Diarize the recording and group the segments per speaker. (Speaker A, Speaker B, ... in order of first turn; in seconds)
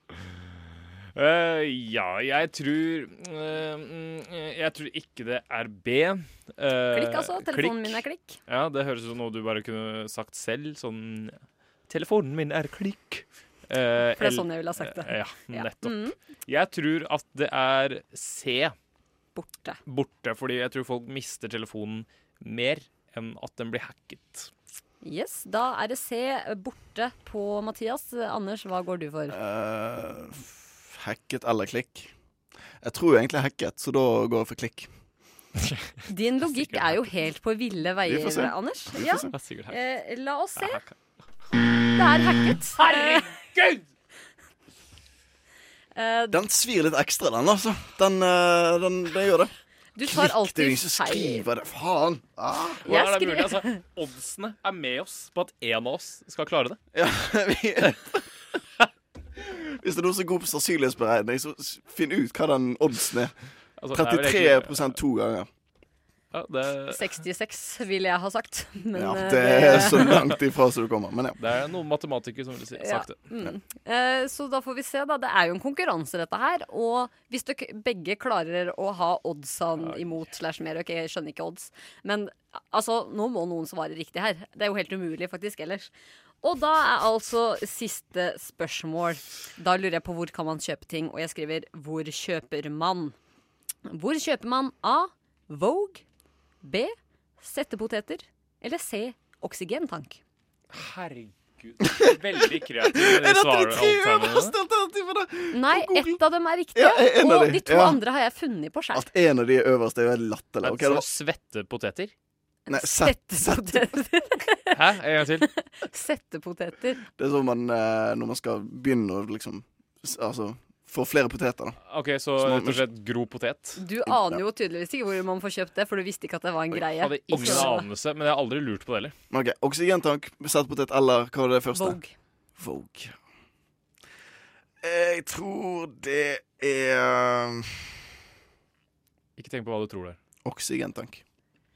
Speaker A: 1.1-11.4, 11.9-18.8, 19.9-24.5, 36.5-37.1, 39.3-39.8, 40.6-40.9, 42.8-43.8, 52.9-56.8, 63.8-64.9, 66.3-67.1, 71.4-73.3, 79.8-80.3, 100.7-104.5, 110.6-112.1, 114.7-115.5, 121.9-123.8, 126.7-129.1, 139.4-140.2
Speaker B: 6.9-8.4, 14.2-16.2, 19.4-19.8, 25.0-29.3, 36.1-40.8, 41.9-43.3, 46.0-46.4, 50.0-51.5, 52.9-53.8, 66.9-70.1, 72.8-85.9, 86.4-93.1, 93.9-96.0, 96.6-100.2, 105.5-109.0, 112.7-114.8, 115.4-117.0, 123.8-127.9, 131.7-132.1
Speaker C: 29.3-32.1, 32.8-34.9, 38.0-39.3, 46.3-49.5, 50.0-52.8, 56.9-58.0, 59.8-63.4, 63.9-65.5, 68.9-71.4, 102.4-106.2, 106.8-108.0, 108.9-111.1, 112.7-113.8, 117.2-121.8, 122.4-122.8, 124.1-124.4, 127.4-127.7, 129.3-132.0, 132.6-133.1, 134.8-137.8, 140.4-141.2